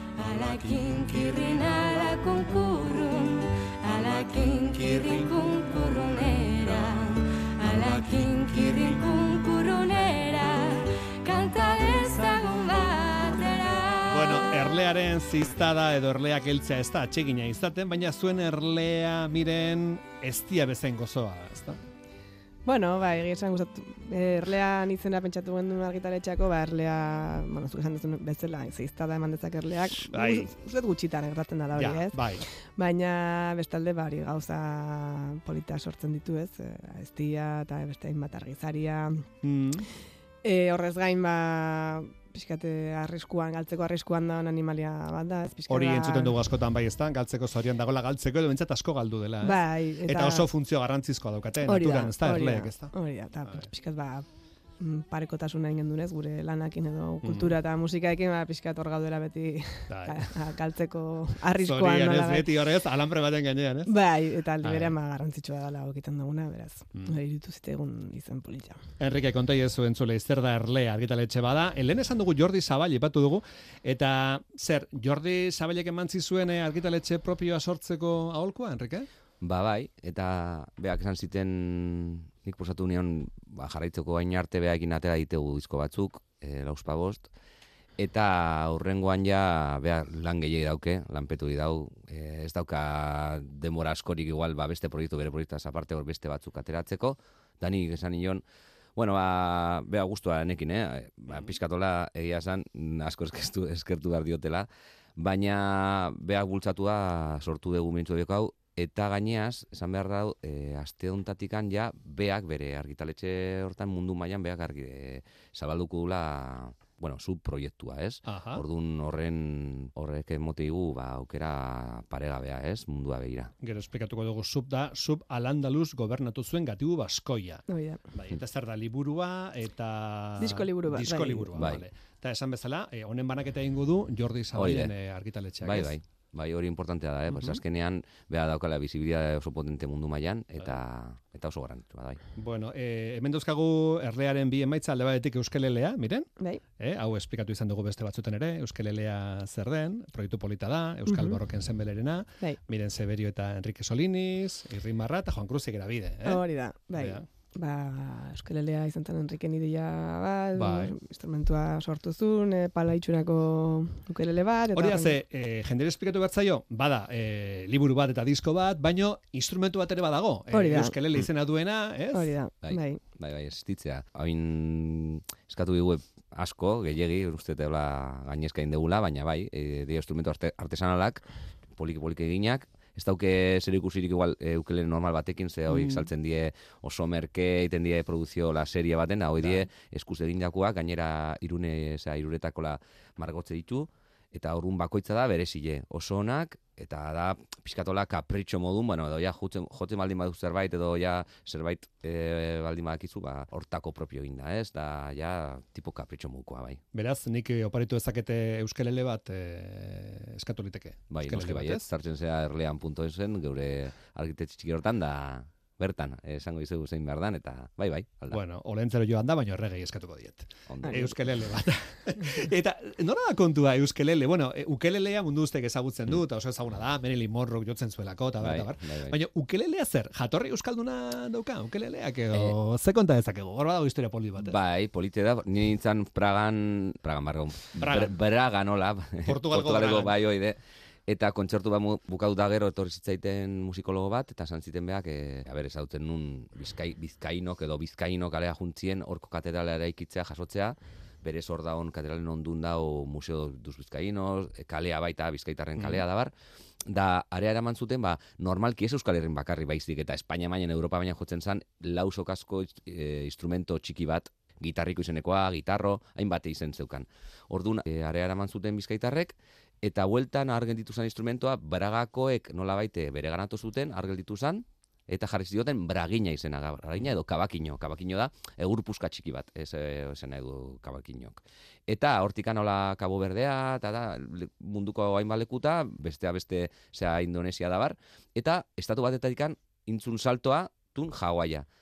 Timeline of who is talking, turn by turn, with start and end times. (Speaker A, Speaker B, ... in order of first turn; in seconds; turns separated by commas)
Speaker A: 0.2-14.7, Speaker B: 14.1-21.8, Speaker C: 22.6-39.2, Speaker B: 30.1-30.5, Speaker B: 31.8-32.4, Speaker B: 39.4-39.9, Speaker C: 40.4-46.4, Speaker B: 45.7-52.9, Speaker C: 49.4-50.5, Speaker C: 51.6-54.2, Speaker C: 54.8-62.5, Speaker B: 57.2-57.5, Speaker B: 59.9-60.3, Speaker B: 61.6-63.9, Speaker C: 63.9-68.8, Speaker B: 64.6-64.9, Speaker B: 69.0-79.1, Speaker D: 79.4-87.3, Speaker D: 88.0-98.4, Speaker D: 99.0-123.5, Speaker B: 118.2-118.6, Speaker B: 123.6-135.9, Speaker C: 127.7-128.0, Speaker C: 130.4-131.5, Speaker D: 131.6-131.8, Speaker D: 134.5-134.9, Speaker D: 135.6-142.2, Speaker B: 137.3-137.6, Speaker B: 142.3-156.4, Speaker C: 151.1-151.4, Speaker C: 156.2-165.2, Speaker B: 156.9-157.2, Speaker B: 160.6-160.9, Speaker B: 164.7-172.3, Speaker C: 170.5-170.9, Speaker C: 172.1-173.0, Speaker D: 172.6-181.2, Speaker D: 181.8-206.8, Speaker B: 185.7-186.1, Speaker B: 189.4-189.7, Speaker B: 206.9-211.8, Speaker D: 211.1-218.4, Speaker B: 218.3-234.6, Speaker D: 220.7-221.2, Speaker C: 220.8-221.1, Speaker D: 228.4-229.2, Speaker D: 234.4-256.3, Speaker B: 237.8-238.1, Speaker B: 239.2-240.2, Speaker B: 255.8-256.0, Speaker D: 256.9-291.6